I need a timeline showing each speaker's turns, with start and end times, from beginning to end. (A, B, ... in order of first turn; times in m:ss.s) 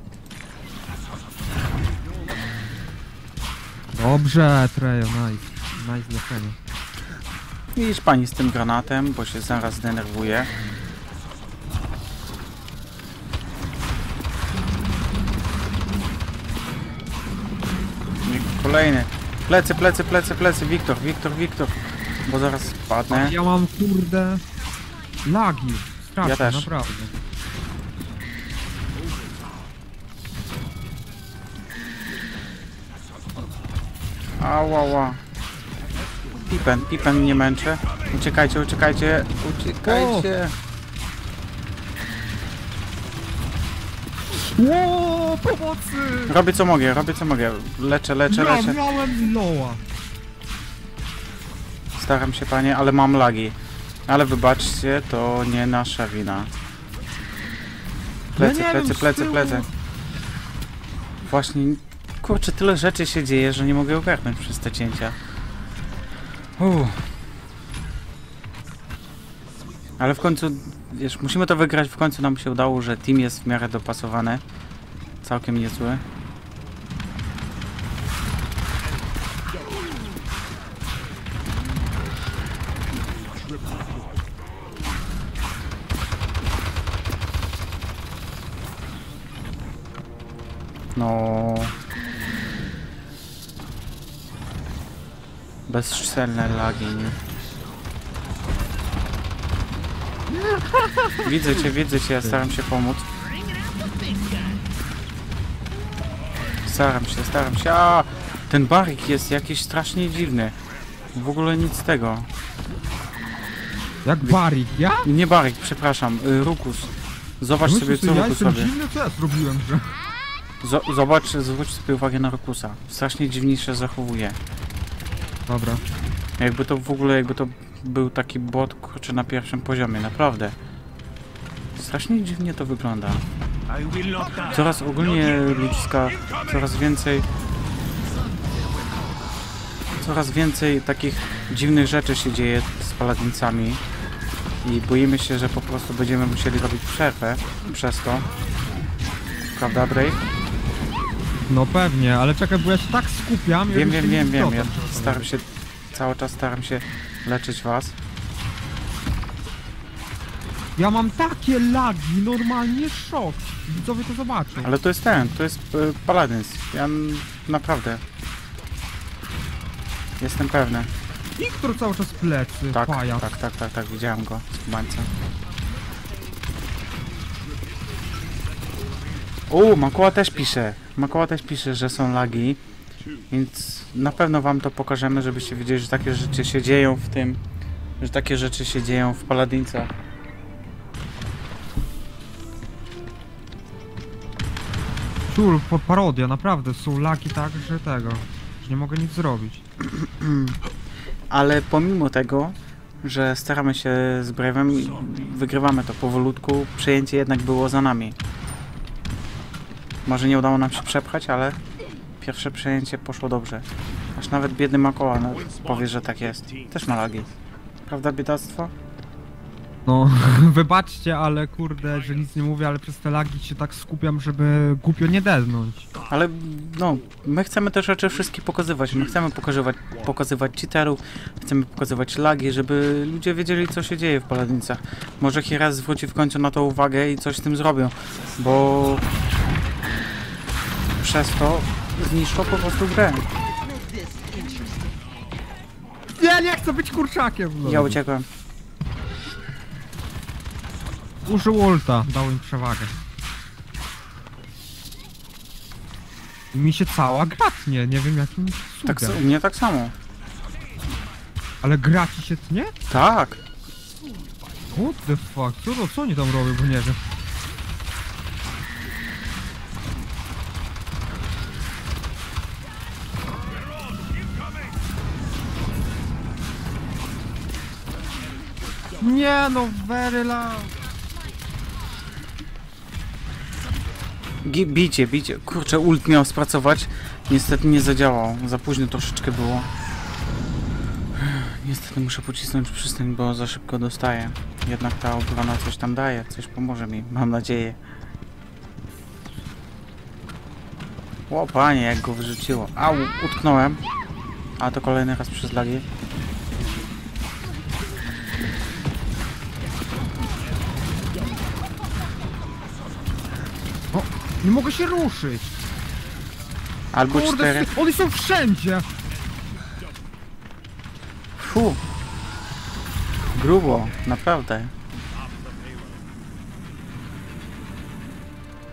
0:03.9-0:06.6 A
0:07.8-0:10.5 B
0:18.2-0:21.8 B
0:22.3-0:23.4 B
0:23.1-0:24.4 A
0:25.2-0:27.2 A
0:26.2-0:26.7 B
0:34.4-0:35.2 B
0:36.4-0:40.5 B
0:39.8-0:40.3 A
0:44.3-0:46.4 A
0:46.3-0:48.8 B
0:48.3-0:49.8 A
0:52.0-0:53.6 B
0:54.1-0:56.5 B
0:58.3-0:59.6 B
0:58.4-0:59.7 A
1:01.2-1:05.1 B
1:06.6-1:07.0 B
1:10.0-1:14.4 B
1:15.2-1:16.0 B
1:31.0-1:31.7 B
1:35.7-1:37.2 B
1:40.3-1:41.6 A
1:41.2-1:43.0 B
1:46.6-1:50.5 B
1:51.1-1:52.3 B
1:54.0-1:55.1 A
1:55.0-1:58.7 B
1:57.6-2:00.0 A
2:00.6-2:04.4 B
2:05.5-2:05.8 A
2:06.4-2:10.5 B
2:11.8-2:13.2 B
2:14.3-2:17.3 B
2:20.0-2:23.8 B
2:24.6-2:28.2 B
2:29.6-2:30.2 B
2:31.5-2:35.3 A
2:33.7-2:37.9 B
2:40.8-2:44.7 A
2:44.6-2:48.0 B
2:50.2-2:50.9 B
2:51.4-2:53.2 A
2:52.7-2:55.1 B
2:59.5-3:02.6 B
3:03.3-3:07.4 B
3:08.0-3:09.9 B
3:15.3-3:19.6 A
3:19.9-3:20.6 B
3:21.3-3:28.1 B
3:30.1-3:31.6 B
3:32.2-3:37.3 B
3:37.9-3:38.7 B
3:39.8-3:45.9 A
3:46.0-3:59.0 B
4:01.0-4:03.2 B
4:06.2-4:08.0 A
4:07.6-4:08.2 B
4:11.2-4:13.0 A
4:16.5-4:19.2 A
4:18.8-4:19.9 B
4:21.6-4:22.8 A
4:22.9-4:23.4 B
4:24.7-4:27.0 A
4:39.0-4:40.8 A
4:44.4-4:49.7 B
4:51.2-4:57.8 B
5:01.3-5:03.8 B
5:04.6-5:05.8 B
5:13.9-5:15.5 A
5:16.9-5:17.7 B
5:17.0-5:18.8 A
5:21.4-5:21.8 B
5:23.3-5:24.7 B